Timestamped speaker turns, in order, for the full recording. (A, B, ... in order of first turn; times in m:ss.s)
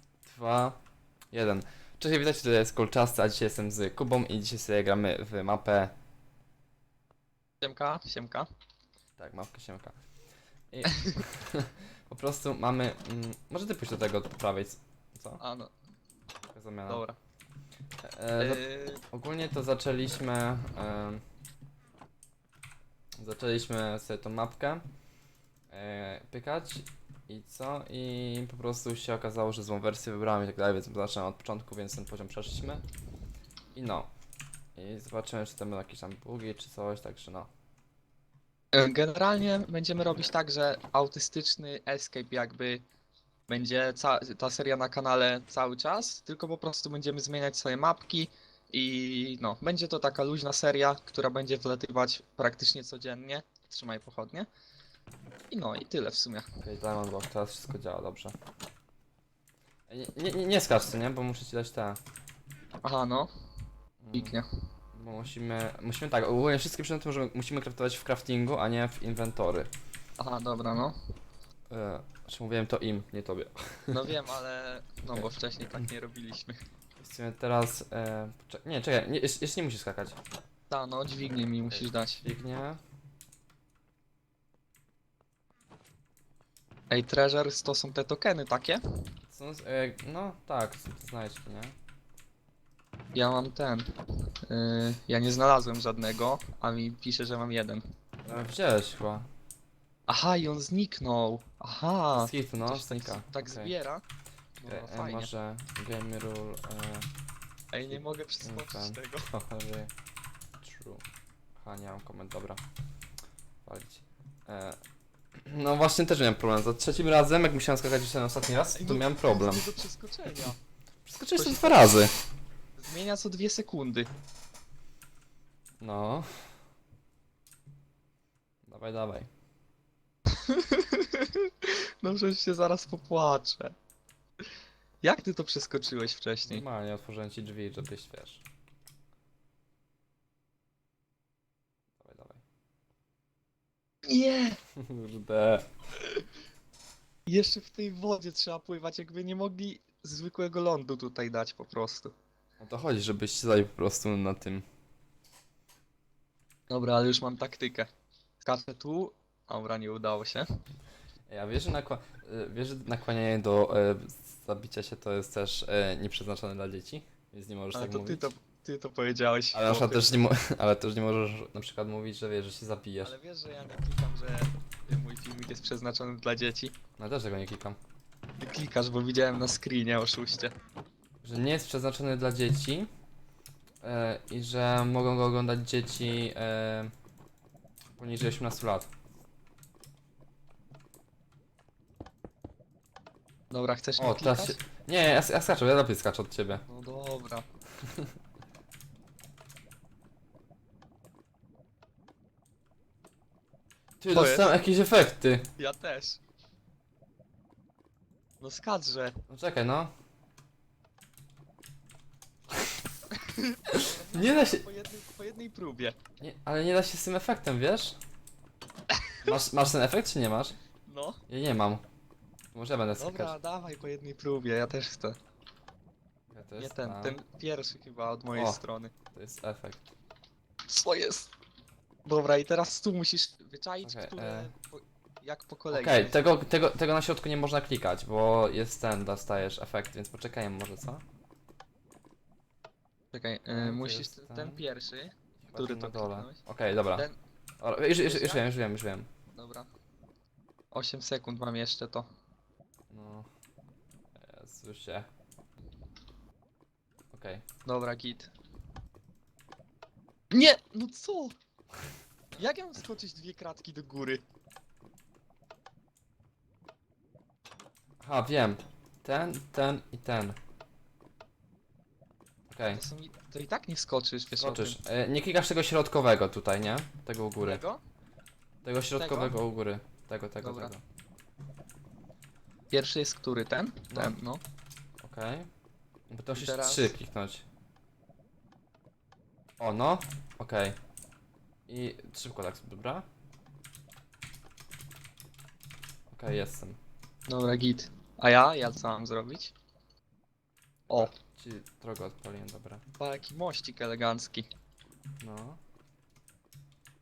0:00.2-0:00.8 A
0:01.3-0:05.9 A
0:07.6-0:08.5 B
0:09.2-0:10.0 A
0:10.7-0:15.4 A
0:15.4-0:15.7 B
0:16.5-0:17.0 A
0:16.9-0:17.2 B
0:18.0-0:21.2 A
0:18.4-0:19.0 B
0:23.2-0:24.9 A
0:25.7-0:32.8 A
0:33.8-0:34.1 A
0:34.8-0:37.5 A
0:38.7-0:42.8 B
0:43.5-0:54.5 B
0:55.5-0:56.5 B
0:56.6-0:58.4 A
0:59.9-1:02.0 A
1:02.8-1:03.3 B
1:04.0-1:04.4 A
1:04.1-1:04.5 B
1:04.9-1:09.7 A
1:10.2-1:10.9 B
1:11.7-1:14.1 A
1:13.9-1:16.6 B
1:15.1-1:15.9 A
1:17.0-1:20.2 A
1:20.7-1:22.2 B
1:21.7-1:22.8 A
1:26.9-1:28.8 B
1:29.3-1:31.8 A
1:33.1-1:33.9 B
1:34.5-1:37.8 B
1:38.3-1:39.3 A
1:40.1-1:44.0 B
1:42.1-1:43.7 A
1:44.6-1:45.3 B
1:44.7-1:47.1 A
1:47.7-1:49.3 B
1:48.4-1:49.9 A
1:50.6-1:51.0 A
1:51.6-1:52.6 A
1:53.6-1:54.8 A
1:55.4-1:59.7 A
1:58.7-2:00.6 B
2:01.0-2:02.1 A
2:01.4-2:01.9 B
2:02.8-2:04.1 B
2:05.8-2:06.5 A
2:08.6-2:09.3 A
2:10.3-2:13.8 B
2:15.0-2:16.7 B
2:16.5-2:18.4 A
2:22.0-2:22.4 A
2:24.1-2:24.6 B
2:24.8-2:25.7 A
2:27.3-2:32.1 B
2:32.6-2:34.6 A
2:36.7-2:37.9 B
2:38.4-2:40.4 B
2:41.3-2:48.3 A
2:47.7-2:50.2 B
2:49.5-2:53.1 A
2:53.0-2:56.7 B
2:57.0-2:57.8 A
2:58.4-3:00.5 B
3:01.2-3:02.9 A
3:03.8-3:06.9 A
3:08.0-3:08.9 A
3:13.5-3:14.6 B
3:14.0-3:16.6 A
3:16.7-3:17.5 B
3:24.0-3:25.5 A
3:24.1-3:24.5 B
3:25.6-3:26.2 B
3:28.4-3:29.2 B
3:29.3-3:29.9 A
3:33.4-3:36.0 B
3:33.7-3:34.6 A
3:36.2-3:38.0 A
3:39.2-3:40.6 A
3:40.9-3:41.2 B
3:41.3-3:41.8 A
3:42.5-3:43.4 A
3:43.0-3:45.2 B
3:46.3-3:47.2 A
3:46.6-3:48.9 B
3:48.3-3:48.6 A
3:49.1-3:49.9 A
3:50.7-3:51.3 B
3:52.0-3:56.2 B
3:53.8-3:54.5 A
3:55.7-4:01.0 A
4:03.1-4:06.4 B
4:03.5-4:04.6 A
4:05.4-4:07.1 A
4:07.6-4:09.1 A
4:08.0-4:08.5 B
4:09.3-4:09.7 B
4:10.7-4:12.1 B
4:12.9-4:13.3 A
4:14.2-4:15.1 A
4:17.1-4:17.4 A
4:17.7-4:18.3 B
4:20.3-4:21.4 B
4:22.4-4:24.2 B
4:28.0-4:30.4 A
4:32.5-4:32.8 A
4:32.7-4:34.8 B
4:34.4-4:37.6 A
4:37.4-4:37.8 B
4:38.6-4:40.8 A
4:39.0-4:39.4 B
4:40.4-4:40.8 B
4:42.7-4:44.4 B
4:43.9-4:44.2 A
4:45.0-4:45.5 A
4:46.1-4:47.4 A
4:46.4-4:47.0 B
4:49.6-4:50.8 A
4:51.7-4:53.0 A
4:56.1-4:56.8 A
4:57.3-4:59.5 B
5:00.9-5:02.8 A
5:03.0-5:04.5 B
5:05.2-5:05.6 A